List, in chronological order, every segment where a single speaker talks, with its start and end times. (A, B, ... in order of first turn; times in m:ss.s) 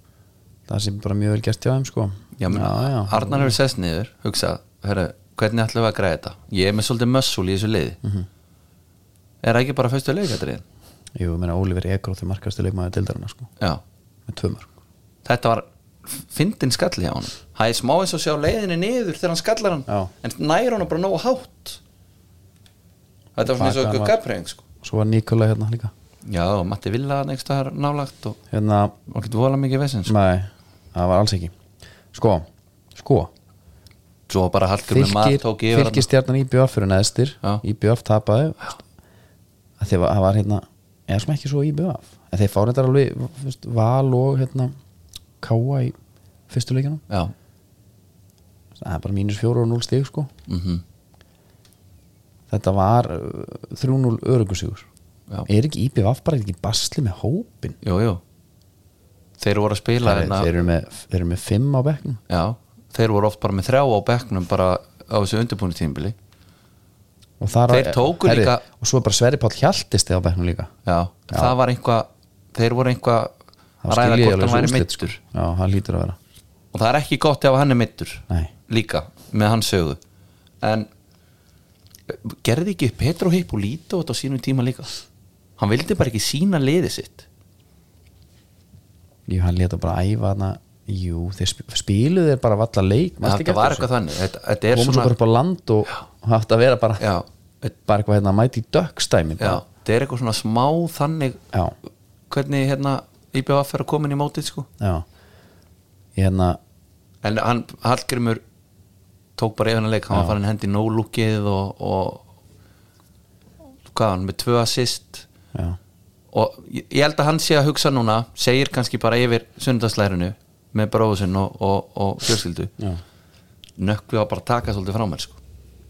0:00.7-0:03.6 A
0:02.4-0:08.0 B
0:08.0-0:08.3 A
0:09.4-0:10.6 B
0:11.2-0:13.5 A
0:14.3-0:14.7 A
0:15.2-0:21.8 B
0:23.4-0:24.6 B
0:23.4-0:24.1 A
0:24.8-0:25.9 A
0:26.2-0:28.4 B
0:28.5-0:28.9 A
0:29.1-0:30.1 B
0:30.1-0:31.5 A
0:32.1-0:33.3 A
0:34.3-0:36.1 B
0:34.9-0:38.8 A
0:39.8-0:44.8 A
0:45.4-0:46.0 A
0:46.5-0:47.0 A
0:48.8-0:50.3 A
0:50.5-0:50.8 B
0:52.5-0:54.9 A
0:55.5-0:57.8 A
0:57.8-0:58.2 B
0:59.4-1:00.5 B
1:00.0-1:02.2 A
1:02.3-1:06.1 B
1:07.4-1:10.7 A
1:07.7-1:08.6 B
1:10.8-1:13.3 B
1:13.8-1:16.2 A
1:13.9-1:15.2 B
1:16.7-1:20.0 B
1:20.6-1:20.9 B
1:22.1-1:24.9 B
1:25.6-1:27.2 B
1:29.3-1:33.9 A
1:33.2-1:35.1 B
1:34.7-1:37.0 A
1:37.0-1:37.7 B
1:37.9-1:39.6 A
1:39.4-1:41.4 B
1:42.3-1:44.7 B
1:44.8-1:45.0 A
1:46.2-1:46.6 A
1:47.2-1:48.4 B
1:49.4-1:52.2 B
1:50.1-1:50.4 A
1:53.9-1:55.3 B
1:56.3-2:02.7 B
2:03.8-2:05.4 B